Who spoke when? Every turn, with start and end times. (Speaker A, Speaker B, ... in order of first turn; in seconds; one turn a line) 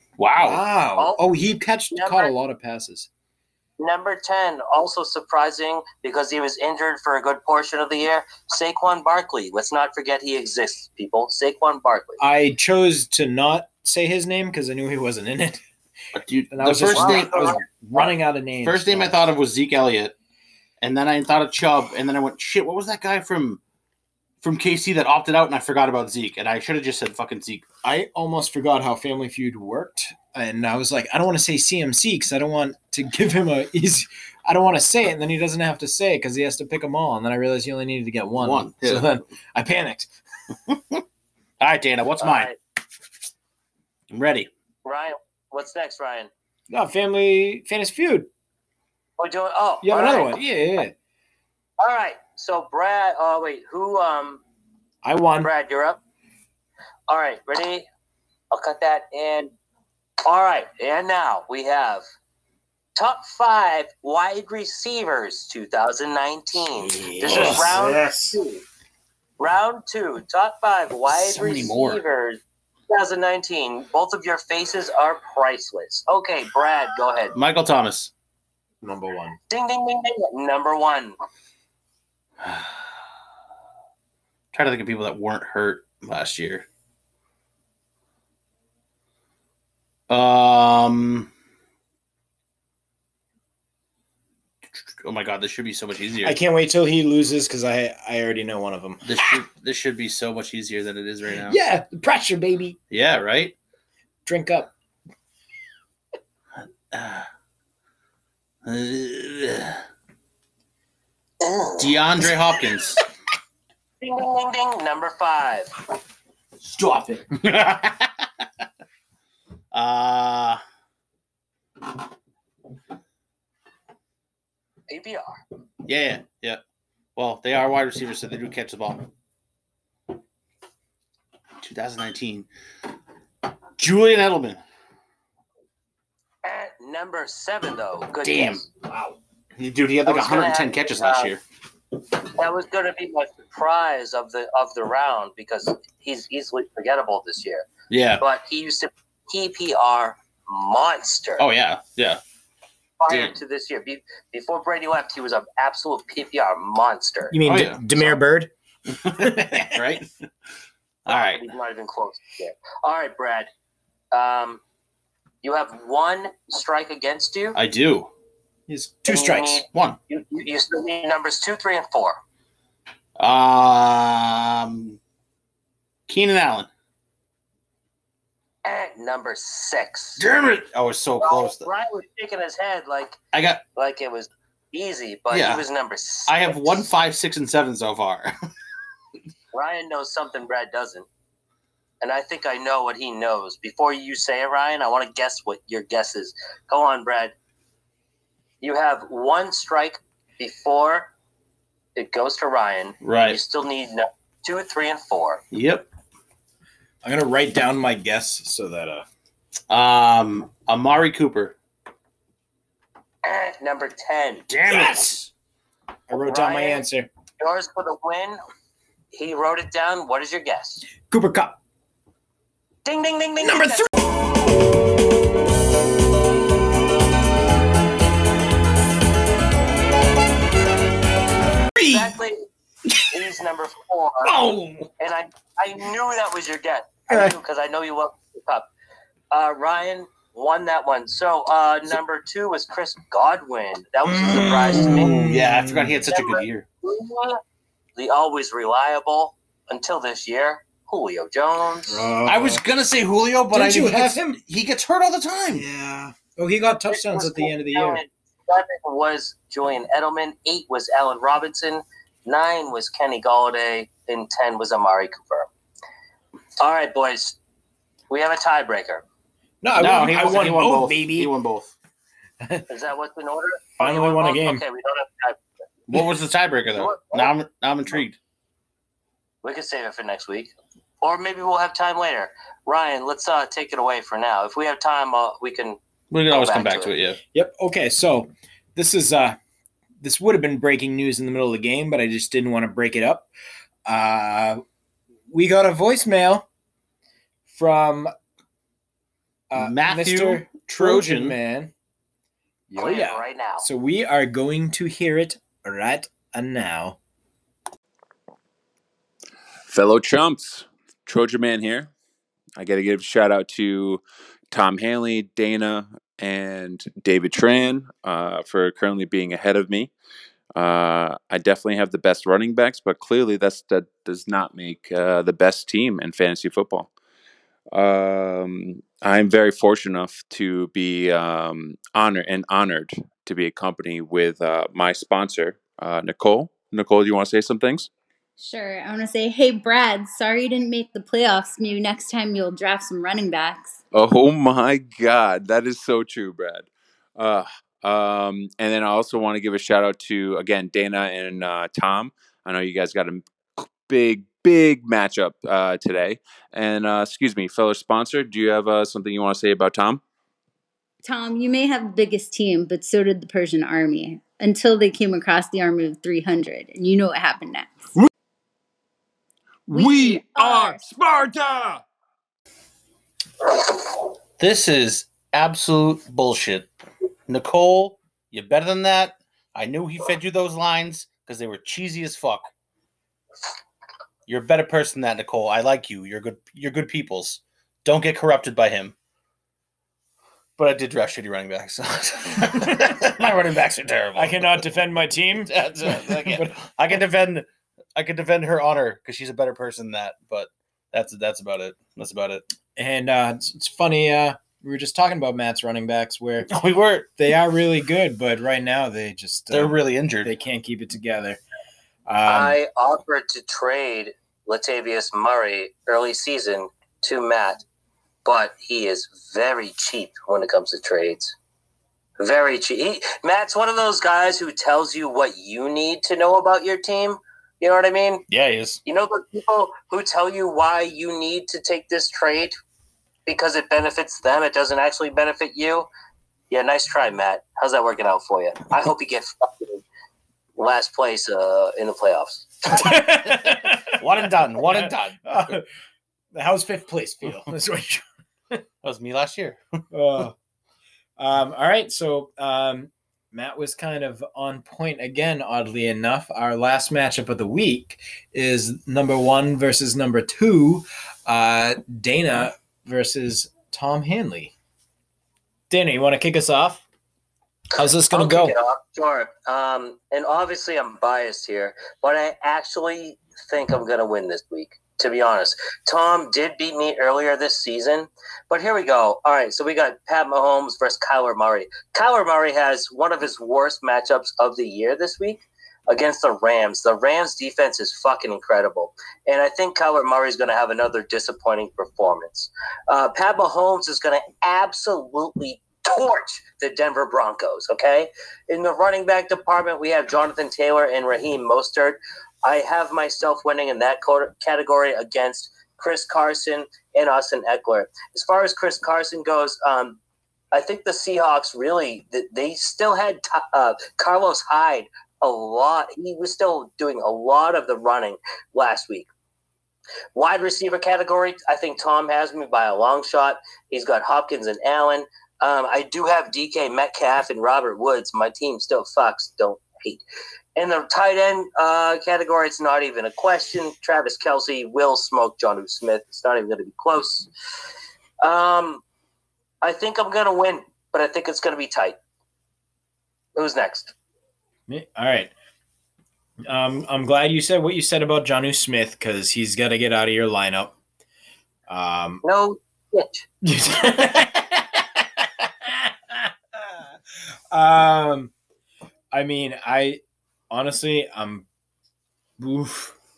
Speaker A: 0.2-0.6
Speaker B: 0.4-3.1
Speaker C: 1.9-2.3
Speaker C: 3.8-12.2
Speaker B: 12.2-15.6
Speaker A: 16.1-18.1
Speaker B: 16.5-19.3
Speaker C: 16.9-17.6
Speaker A: 18.6-20.1
Speaker A: 20.8-23.6
Speaker A: 24.4-27.7
Speaker B: 27.8-40.1
Speaker A: 38.4-39.2
Speaker A: 41.6-42.5
Speaker C: 42.2-42.6
Speaker A: 44.1-44.5
Speaker C: 44.9-46.3
Speaker B: 46.7-48.3
Speaker C: 49.2-50.4
Speaker B: 49.8-50.9
Speaker C: 51.8-54.4
Speaker B: 55.0-55.5
Speaker C: 55.4-56.0
Speaker C: 57.1-57.9
Speaker C: 58.5-59.5
Speaker C: 60.3-62.0
Speaker C: 63.0-68.6
Speaker B: 66.6-68.4
Speaker A: 67.3-67.8
Speaker C: 69.4-77.4
Speaker A: 71.1-72.0
Speaker A: 77.3-78.1
Speaker B: 78.8-79.4
Speaker C: 79.5-81.2
Speaker A: 82.4-82.7
Speaker A: 84.5-86.7
Speaker A: 90.1-91.3
Speaker A: 94.7-96.4
Speaker B: 96.2-99.4
Speaker A: 99.0-101.6
Speaker B: 101.4-102.8
Speaker A: 102.9-103.5
Speaker B: 104.3-104.7
Speaker A: 106.9-107.3
Speaker A: 108.7-109.8
Speaker C: 111.4-112.0
Speaker A: 111.8-113.0
Speaker C: 114.0-115.7
Speaker A: 116.6-118.3
Speaker A: 119.7-120.6
Speaker C: 124.9-125.4
Speaker A: 125.8-126.6
Speaker A: 127.2-129.1
Speaker A: 131.6-132.5
Speaker A: 133.8-134.6
Speaker C: 136.4-138.7
Speaker A: 138.2-138.7
Speaker A: 139.6-141.4
Speaker C: 140.1-141.3
Speaker C: 142.3-147.7
Speaker A: 147.9-148.2
Speaker C: 148.2-151.4
Speaker A: 151.4-152.2
Speaker C: 153.0-157.3
Speaker B: 157.3-158.5
Speaker A: 157.5-158.1
Speaker A: 158.9-160.1
Speaker B: 159.2-159.8
Speaker A: 161.1-161.5
Speaker C: 161.1-163.5
Speaker C: 164.1-164.6
Speaker C: 165.4-167.6
Speaker A: 167.6-168.1
Speaker B: 168.7-169.7
Speaker C: 169.1-172.2
Speaker A: 169.7-170.0
Speaker A: 173.2-175.0
Speaker A: 176.1-176.7
Speaker C: 178.7-180.2
Speaker A: 180.2-181.7
Speaker C: 181.2-183.2
Speaker A: 183.3-183.6
Speaker C: 183.8-186.8
Speaker A: 185.3-185.6
Speaker A: 186.3-188.3
Speaker C: 189.5-191.1
Speaker C: 192.0-197.3
Speaker C: 198.6-201.1
Speaker C: 202.0-205.4
Speaker A: 203.0-203.4
Speaker A: 205.5-205.9
Speaker B: 207.0-209.1
Speaker A: 209.7-211.6
Speaker C: 213.2-214.5
Speaker A: 214.5-215.3
Speaker B: 214.7-215.0
Speaker B: 216.1-217.1
Speaker C: 216.2-216.8
Speaker C: 217.4-218.4
Speaker C: 219.1-220.9
Speaker B: 221.1-221.6
Speaker C: 222.8-223.9
Speaker B: 223.4-223.9
Speaker B: 231.8-232.2
Speaker C: 231.9-232.4
Speaker C: 233.1-234.3
Speaker A: 234.2-234.9
Speaker C: 235.0-238.7
Speaker B: 237.1-237.4
Speaker C: 239.3-245.1
Speaker B: 244.1-246.1
Speaker A: 244.4-246.7
Speaker C: 246.1-247.4
Speaker C: 248.0-252.1
Speaker B: 251.9-252.6
Speaker A: 252.3-255.7
Speaker B: 253.5-254.4
Speaker B: 255.5-258.0
Speaker C: 256.9-265.5
Speaker C: 266.6-267.4
Speaker C: 268.1-269.0
Speaker B: 269.6-271.3
Speaker A: 269.8-271.8
Speaker B: 272.4-272.7
Speaker C: 272.7-275.4
Speaker B: 273.8-274.6
Speaker A: 275.9-278.2
Speaker C: 276.8-277.3
Speaker C: 279.4-285.8
Speaker A: 286.1-287.2
Speaker C: 286.3-286.9
Speaker B: 287.3-289.4
Speaker B: 290.0-293.3
Speaker B: 293.9-294.6
Speaker B: 295.3-296.5
Speaker B: 297.5-298.1
Speaker B: 299.5-301.7
Speaker A: 299.6-301.4
Speaker B: 302.7-307.0
Speaker C: 302.8-303.7
Speaker D: 309.7-311.9
Speaker D: 312.6-319.9
Speaker D: 320.6-326.9
Speaker D: 327.7-337.9
Speaker E: 338.4-343.8
Speaker D: 343.9-360.0
Speaker E: 361.0-367.9
Speaker B: 369.7-371.8
Speaker E: 369.7-370.9
Speaker A: 374.4-376.7
Speaker A: 377.3-382.5
Speaker A: 384.3-388.9
Speaker A: 390.6-394.7
Speaker B: 392.6-393.0
Speaker B: 394.2-396.6
Speaker A: 395.5-397.4
Speaker A: 398.0-402.4
Speaker B: 402.8-406.5
Speaker A: 406.5-407.1
Speaker B: 407.2-411.4
Speaker A: 409.5-410.3
Speaker B: 412.1-412.6
Speaker C: 412.3-417.6
Speaker C: 418.2-421.4
Speaker C: 422.2-428.2
Speaker A: 428.3-428.8
Speaker C: 428.9-432.6
Speaker C: 433.3-435.9
Speaker C: 436.5-439.8
Speaker C: 440.6-443.0
Speaker B: 442.7-444.0
Speaker A: 443.9-445.6
Speaker B: 444.6-445.6
Speaker B: 446.3-448.6
Speaker A: 448.8-449.6
Speaker B: 449.9-450.4
Speaker B: 451.2-464.5
Speaker B: 465.7-466.8
Speaker B: 467.8-468.6
Speaker C: 468.1-510.0
Speaker C: 510.5-519.1
Speaker C: 520.1-530.0
Speaker C: 530.6-537.3
Speaker C: 538.2-538.8
Speaker C: 539.6-542.0
Speaker C: 543.4-543.9
Speaker B: 544.7-545.3
Speaker B: 546.5-550.8
Speaker B: 551.7-552.2
Speaker C: 552.2-553.2
Speaker B: 553.4-556.9
Speaker B: 557.5-558.3
Speaker B: 559.1-560.0
Speaker B: 560.5-561.5
Speaker B: 562.4-562.9